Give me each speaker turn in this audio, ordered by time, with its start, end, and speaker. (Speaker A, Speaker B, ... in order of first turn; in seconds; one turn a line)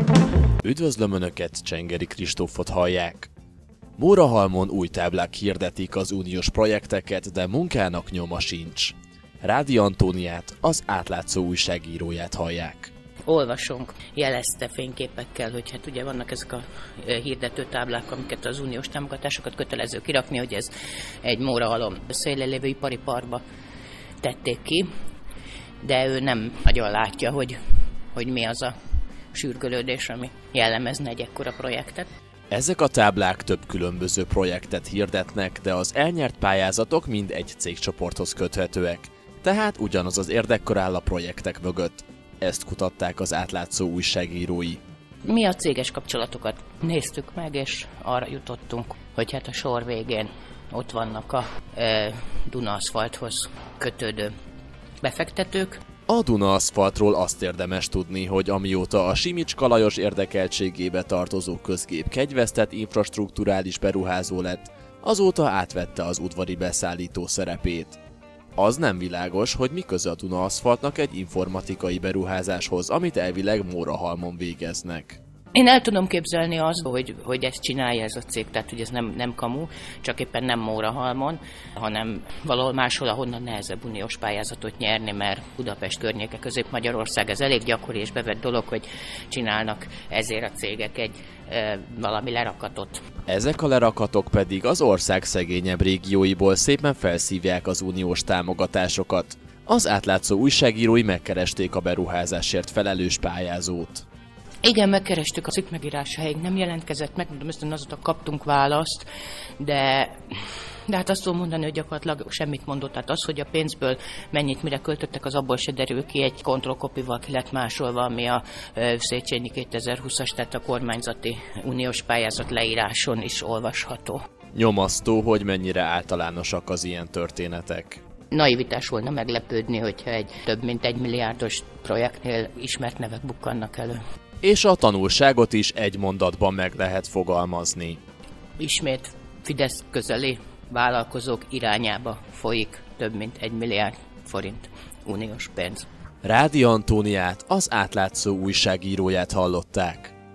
Speaker A: 0.6-3.3
Speaker A: 4.0-12.9
Speaker B: 13.3-20.7
Speaker B: 21.2-23.4
Speaker B: 24.2-24.9
Speaker B: 25.8-27.6
Speaker B: 28.1-28.7
Speaker B: 29.3-32.1
Speaker A: 32.5-44.8
Speaker B: 45.2-54.3
Speaker B: 55.0-55.8
Speaker A: 56.1-68.0
Speaker A: 68.6-75.2
Speaker B: 75.5-93.0
Speaker A: 93.3-104.0
Speaker B: 104.6-109.0
Speaker B: 109.6-124.2
Speaker A: 124.5-128.0
Speaker B: 128.3-134.0
Speaker A: 134.4-138.0
Speaker B: 138.6-145.8
Speaker A: 146.2-150.1